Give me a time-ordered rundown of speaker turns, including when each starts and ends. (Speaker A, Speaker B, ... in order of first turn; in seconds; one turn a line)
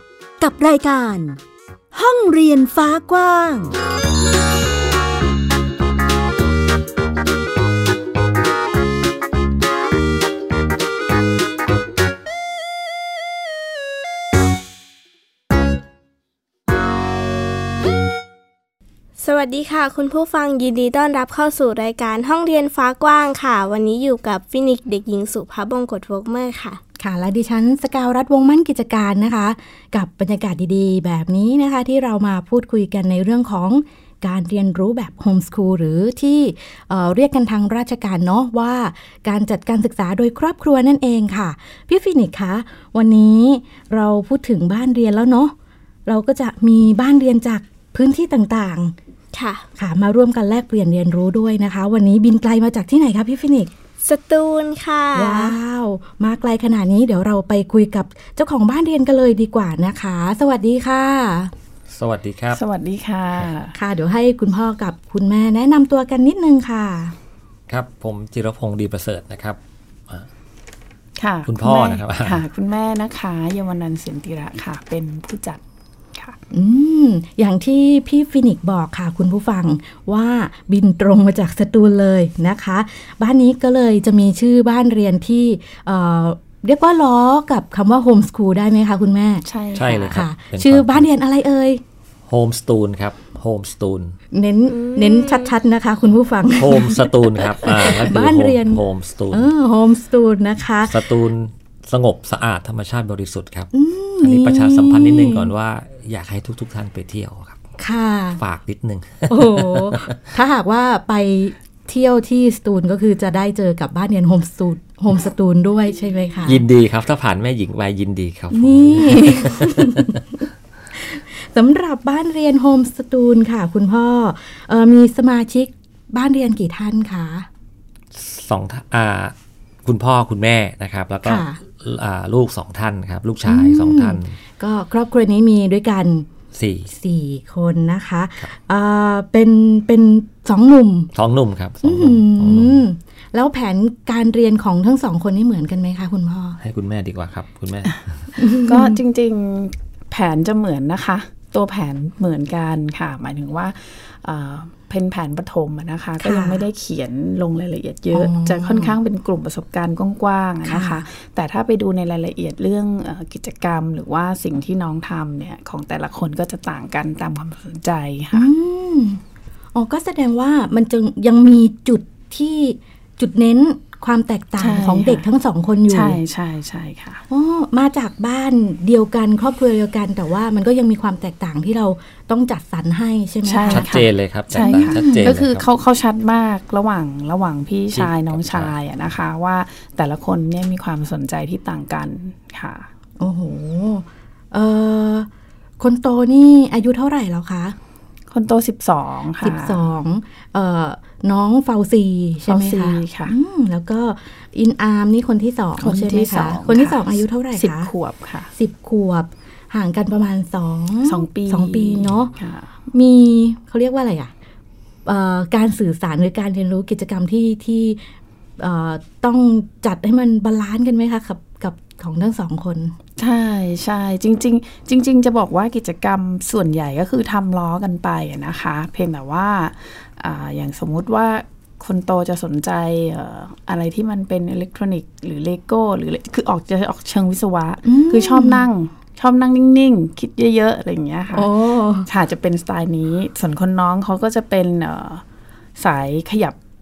Speaker A: 0.4-1.4
Speaker A: 1.9-3.7
Speaker B: 19.2-26.8
Speaker C: 27.0-45.5
Speaker C: 46.0-48.9
Speaker B: 49.3-49.6
Speaker C: 49.8-53.7
Speaker B: 54.0-55.5
Speaker C: 55.1-61.5
Speaker D: 61.9-62.6
Speaker E: 62.5-63.7
Speaker C: 63.7-67.1
Speaker D: 67.7-70.3
Speaker E: 71.2-75.6
Speaker D: 71.5-72.4
Speaker C: 76.5-89.4
Speaker E: 89.4-90.2
Speaker D: 89.7-91.1
Speaker C: 90.1-91.8
Speaker D: 92.3-94.2
Speaker C: 94.3-101.0
Speaker B: 94.7-95.5
Speaker D: 96.5-99.5
Speaker D: 100.9-107.6
Speaker C: 103.7-105.5
Speaker C: 107.8-108.4
Speaker D: 108.4-110.2
Speaker C: 109.3-116.6
Speaker D: 116.4-120.2
Speaker C: 118.5-120.3
Speaker C: 121.0-127.5
Speaker D: 128.1-129.3
Speaker D: 129.8-134.3
Speaker C: 131.2-131.6
Speaker C: 133.4-136.3
Speaker D: 136.5-136.9
Speaker C: 136.9-141.1
Speaker D: 141.1-142.8
Speaker C: 141.8-146.6
Speaker D: 146.6-148.0
Speaker C: 148.4-149.0
Speaker E: 148.5-168.5
Speaker C: 156.2-156.6
Speaker C: 158.1-159.0
Speaker C: 160.6-161.1
Speaker C: 168.3-169.2
Speaker C: 169.7-176.2
Speaker E: 174.6-175.2
Speaker E: 175.9-177.2
Speaker C: 177.3-183.9
Speaker E: 183.4-192.9
Speaker D: 183.7-185.6
Speaker C: 184.5-185.3
Speaker D: 187.9-188.7
Speaker C: 193.2-195.3
Speaker C: 195.8-197.8
Speaker E: 198.3-199.8
Speaker C: 199.4-207.9
Speaker E: 202.5-203.3
Speaker E: 205.8-208.5
Speaker C: 208.5-212.3
Speaker E: 211.0-212.7
Speaker C: 212.9-214.3
Speaker C: 215.1-218.0
Speaker C: 218.6-222.9
Speaker E: 223.2-241.5
Speaker C: 237.8-238.7
Speaker C: 241.3-242.1
Speaker E: 242.1-245.2
Speaker E: 245.8-246.6